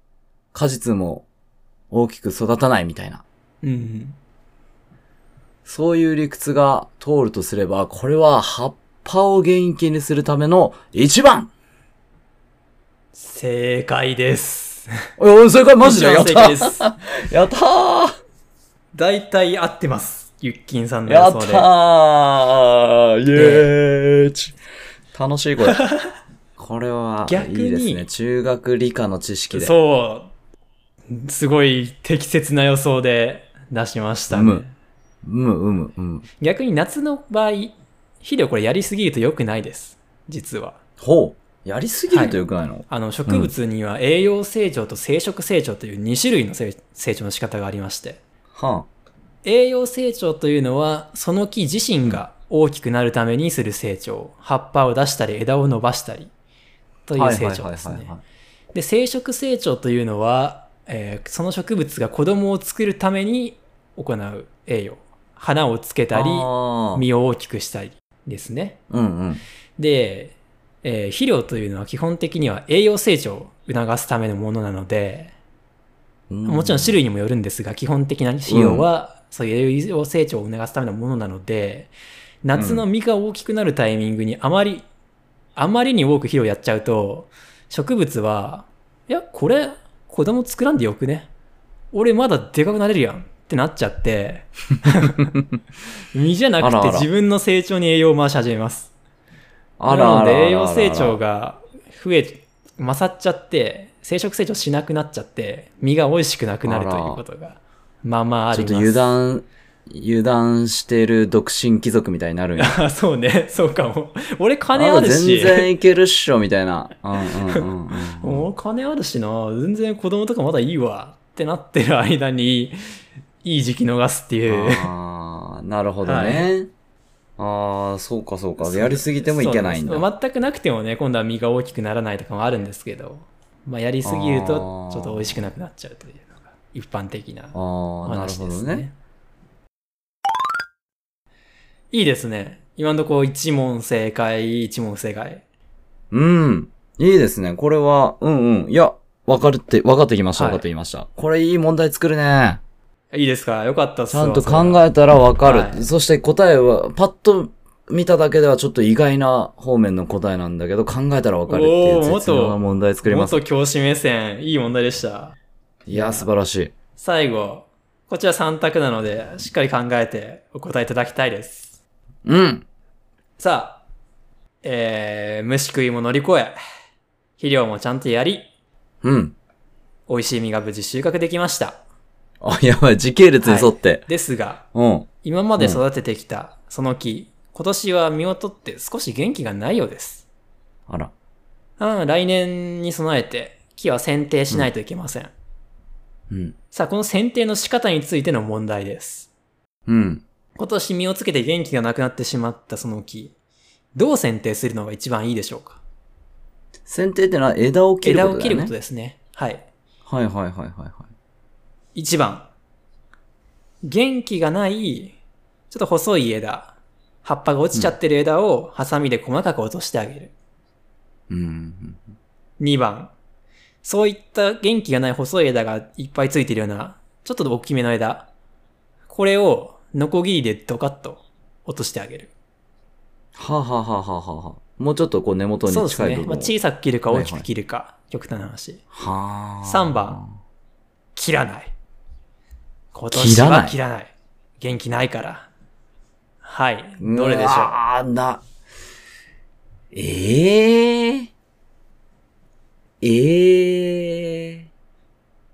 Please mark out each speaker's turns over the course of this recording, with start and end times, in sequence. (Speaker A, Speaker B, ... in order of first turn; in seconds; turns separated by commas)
Speaker A: 0.5-1.3, Speaker A: 1.9-3.2, Speaker B: 3.6-4.2, Speaker A: 5.7-11.5, Speaker B: 13.1-14.9, Speaker A: 15.2-18.1, Speaker B: 15.8-16.8, Speaker B: 18.9-21.7, Speaker A: 21.1-24.6, Speaker B: 23.3-23.7, Speaker A: 25.1-25.8, Speaker B: 25.6-26.1, Speaker A: 26.6-29.7, Speaker B: 27.3-28.1, Speaker B: 29.5-30.3, Speaker B: 31.1-34.7, Speaker A: 34.3-34.6, Speaker A: 35.2-36.3, Speaker B: 36.4-40.8, Speaker A: 41.0-43.5, Speaker B: 42.1-48.2, Speaker A: 48.5-48.9, Speaker B: 49.5-56.3, Speaker B: 57.1-58.1, Speaker A: 57.2-58.2, Speaker B: 58.7-68.8, Speaker A: 66.1-67.0, Speaker A: 68.9-69.4, Speaker B: 69.8-75.3, Speaker A: 76.3-77.0, Speaker B: 76.5-81.9, Speaker A: 78.5-78.9, Speaker B: 82.4-84.9, Speaker A: 82.5-82.9, Speaker B: 85.6-91.3, Speaker B: 91.9-95.3, Speaker B: 96.1-98.9, Speaker A: 96.6-97.1, Speaker A: 99.8-101.2, Speaker B: 99.9-109.1, Speaker A: 106.7-107.2, Speaker A: 108.5-112.8, Speaker B: 112.6-115.7, Speaker A: 114.7-118.5, Speaker B: 117.5-122.8, Speaker B: 123.4-124.9, Speaker A: 124.5-126.7, Speaker B: 126.0-126.5, Speaker A: 127.4-130.1, Speaker B: 128.6-138.9, Speaker A: 134.0-135.4, Speaker A: 137.5-138.9, Speaker B: 141.9-145.4, Speaker A: 146.1-152.6, Speaker B: 150.4-150.7, Speaker B: 153.1-154.8, Speaker A: 154.1-163.4, Speaker B: 155.4-155.8, Speaker B: 161.5-165.4, Speaker A: 165.9-166.7, Speaker B: 165.9-166.3, Speaker B: 167.0-171.8, Speaker A: 172.2-172.7, Speaker B: 173.4-173.8, Speaker B: 174.6-176.6, Speaker B: 177.4-178.5, Speaker A: 179.0-179.3, Speaker B: 180.1-181.8, Speaker A: 182.4-184.1, Speaker B: 183.4-184.6, Speaker A: 184.7-185.8, Speaker B: 185.2-190.3, Speaker A: 190.9-191.1, Speaker B: 191.8-195.3, Speaker A: 196.3-196.6, Speaker B: 196.7-199.3, Speaker A: 199.9-200.2, Speaker B: 200.6-203.3, Speaker B: 203.9-205.8, Speaker A: 206.9-208.7, Speaker B: 208.0-209.7, Speaker A: 210.1-211.1, Speaker B: 211.9-212.5, Speaker B: 213.8-215.2, Speaker B: 215.7-220.3, Speaker A: 221.3-222.1, Speaker B: 222.6-223.1, Speaker B: 223.8-228.3, Speaker B: 229.1-232.3, Speaker A: 233.4-236.5, Speaker B: 235.7-238.8, Speaker A: 237.1-237.5, Speaker A: 238.9-240.3, Speaker B: 239.6-240.2, Speaker B: 241.2-241.7, Speaker B: 242.9-245.5, Speaker A: 243.1-243.8, Speaker B: 246.4-247.7, Speaker A: 247.0-248.4, Speaker A: 249.9-251.3, Speaker A: 253.0-254.7